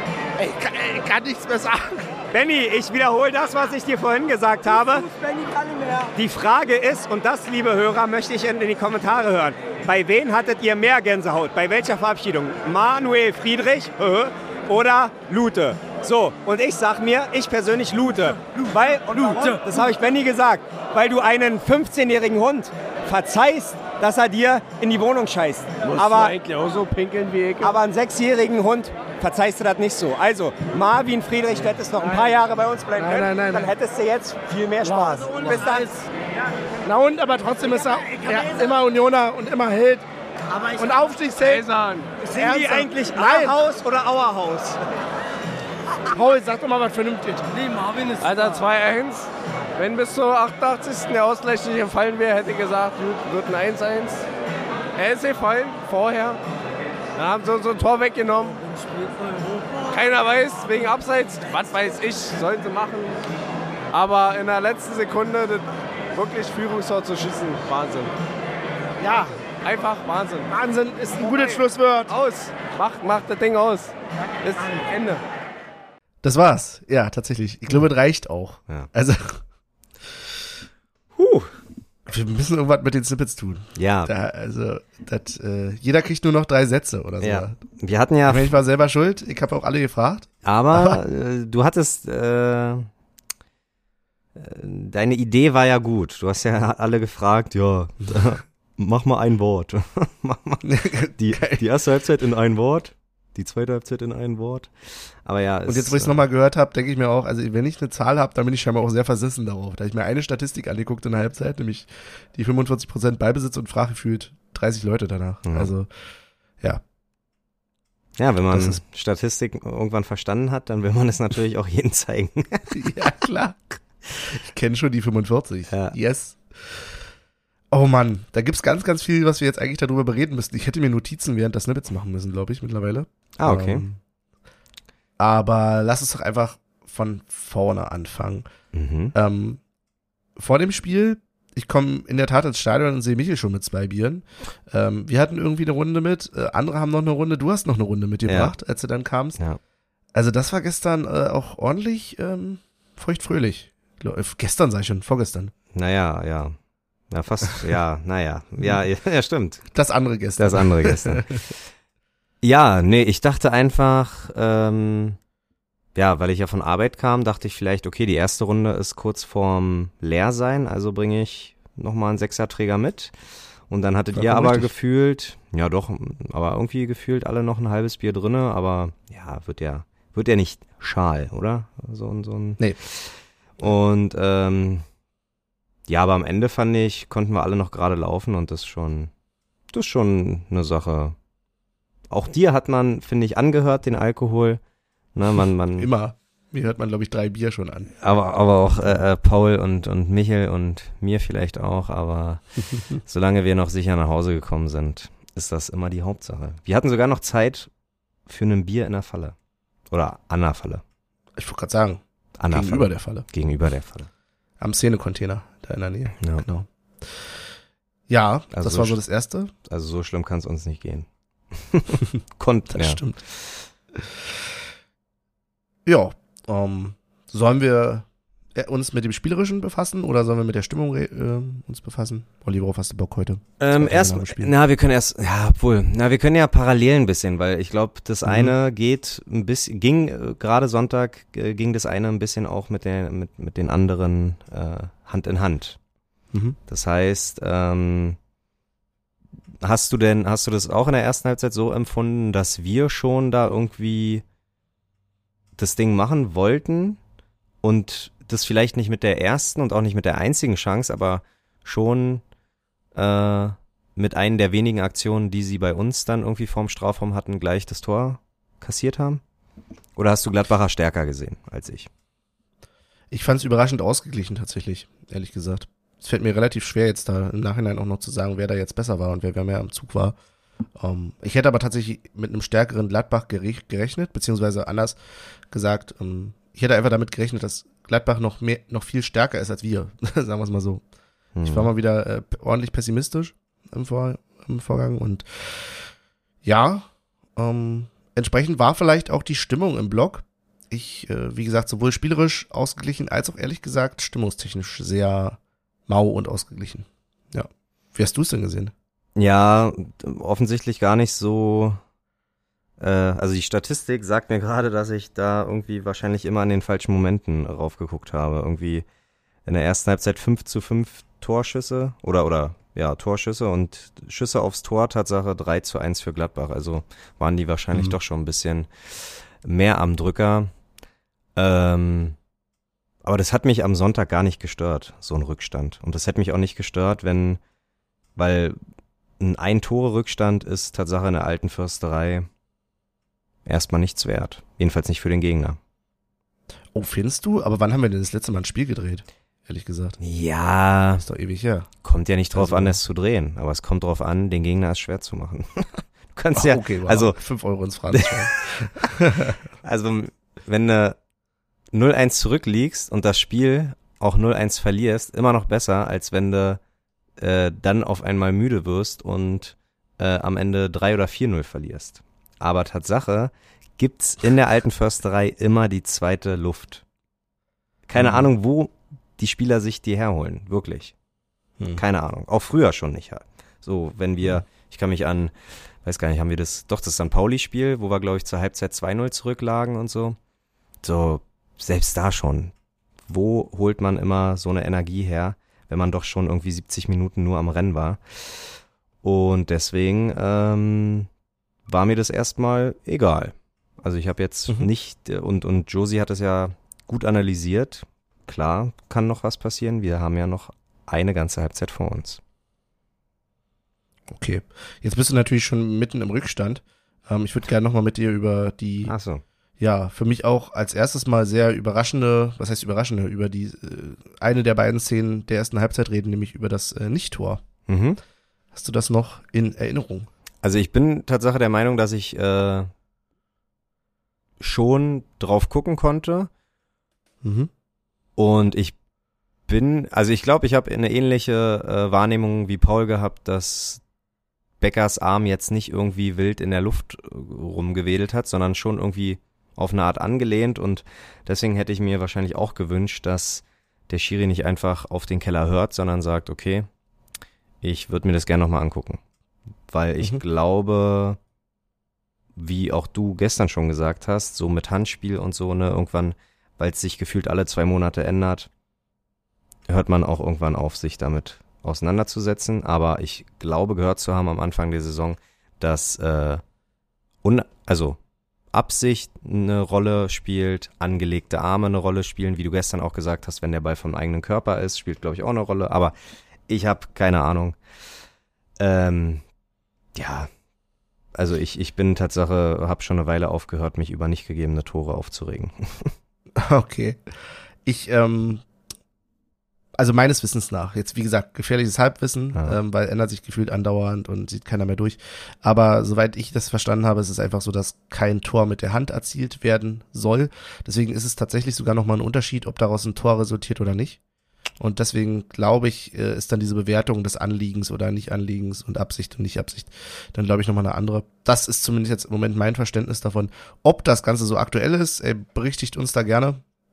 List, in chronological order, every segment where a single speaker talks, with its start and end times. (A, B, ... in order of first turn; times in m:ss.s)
0:00.4-0:02.1 A
0:02.3-0:05.1 B
0:04.7-0:06.1 C
0:06.2-0:26.4 B
0:25.8-0:27.8 D
0:27.6-0:35.9 B
0:33.0-0:33.7 A
0:34.9-0:35.3 A
0:35.0-0:36.1 C
0:36.8-0:40.0 A
0:37.7-0:38.8 C
0:40.5-0:41.2 C
0:40.8-0:41.7 A
0:41.4-0:42.2 D
0:42.4-0:43.6 A
0:42.4-0:44.8 B
0:46.1-0:47.4 A
0:47.5-0:48.6 C
0:48.2-0:54.3 D
0:55.0-0:56.4 D
0:57.2-0:58.6 D
0:59.9-1:03.2 D
1:03.9-1:08.1 D
1:09.0-1:09.4 A
1:09.5-1:10.5 D
1:10.5-1:12.2 A
1:11.2-1:15.2 D
1:16.2-1:19.4 E
1:21.2-1:21.6 F
1:22.1-1:27.6 E
1:23.8-1:24.1 F
1:27.2-1:28.5 F
1:28.3-1:31.0 E
1:30.4-1:32.9 F
1:34.4-1:46.2 F
1:40.6-1:41.6 E
1:45.7-1:56.8 E
1:55.5-1:55.7 F
1:58.2-2:03.0 F
1:58.5-1:58.8 E
2:02.7-2:07.0 E
2:05.7-2:06.0 F
2:07.7-2:14.0 E
2:13.4-2:13.9 F
2:15.2-2:18.5 E
2:18.7-2:19.1 F
2:19.1-2:19.6 E
2:20.4-2:29.4 E
2:28.3-2:28.5 F
2:30.1-2:35.5 E
2:35.7-2:36.6 F
2:37.1-2:39.7 F
2:39.7-2:41.3 E
2:40.4-2:41.5 F
2:42.4-2:45.2 F
2:46.0-2:53.1 F
2:53.7-3:04.9 F
2:54.1-2:54.7 E
3:05.9-3:09.1 F
3:09.7-3:11.2 F
3:12.1-3:14.6 F
3:15.1-3:15.9 F
3:15.8-3:17.9 E
3:18.0-3:27.7 F
3:18.8-3:19.0 E
3:28.3-3:29.4 F
3:29.9-3:30.8 F
3:31.4-3:33.2 E
3:32.4-3:34.1 F
3:34.6-3:37.3 E
3:36.2-3:36.4 F
3:38.1-3:39.5 E
3:38.5-3:39.0 F
3:39.7-3:43.6 F
3:42.7-3:43.2 E
3:44.0-3:44.2 E
3:45.8-3:54.5 E
3:53.6-4:05.8 F
3:58.2-3:58.5 E
4:06.3-4:06.6 E
4:06.7-4:08.2 F
4:09.6-4:14.2 F
4:15.6-4:17.0 F
4:17.6-4:22.2 F
4:23.0-4:29.2 F
4:30.0-4:31.9 F
4:33.1-4:40.2 E
4:40.8-4:45.0 E
4:45.5-4:50.8 E
4:51.4-4:51.7 F
4:51.4-4:55.9 E
4:56.4-5:08.7 E
5:09.2-5:11.8 F
5:12.8-5:18.9 F
5:19.4-5:30.5 F
5:27.7-5:28.0 E
5:31.4-5:32.2 F
5:33.0-5:37.4 F
5:38.2-5:38.6 F
5:39.2-5:42.3 F
5:43.4-5:45.6 F
5:46.7-5:50.0 E
5:50.0-5:51.0 F
5:51.0-5:51.7 E
5:51.8-5:57.2 F
5:52.3-5:52.8 E
5:56.3-5:59.4 E
5:59.6-6:01.0 F
6:01.7-6:06.6 F
6:07.2-6:16.8 F
6:17.9-6:20.9 F
6:18.0-6:18.3 E
6:21.7-6:30.2 F
6:30.8-6:32.5 F
6:33.1-6:38.5 F
6:39.0-6:41.1 F
6:41.7-6:52.2 F
6:54.1-6:59.0 E
6:58.9-6:59.2 F
6:59.6-7:07.4 E
7:07.7-7:08.0 F
7:08.5-7:10.1 E
7:10.4-7:12.7 F
7:14.4-7:16.3 F
7:17.2-7:17.5 E
7:18.2-7:18.8 F
7:19.5-7:23.8 F
7:24.6-7:36.7 F
7:37.6-7:39.0 F
7:39.7-7:41.2 F
7:42.4-7:48.5 F
7:49.7-7:56.4 F
7:57.2-7:58.0 F
7:58.5-8:06.0 F
8:06.5-8:07.6 F
8:08.6-8:09.2 F
8:10.0-8:10.3 F
8:11.2-8:15.9 F
8:16.4-8:18.4 E
8:19.8-8:34.0 E
8:34.6-8:46.4 E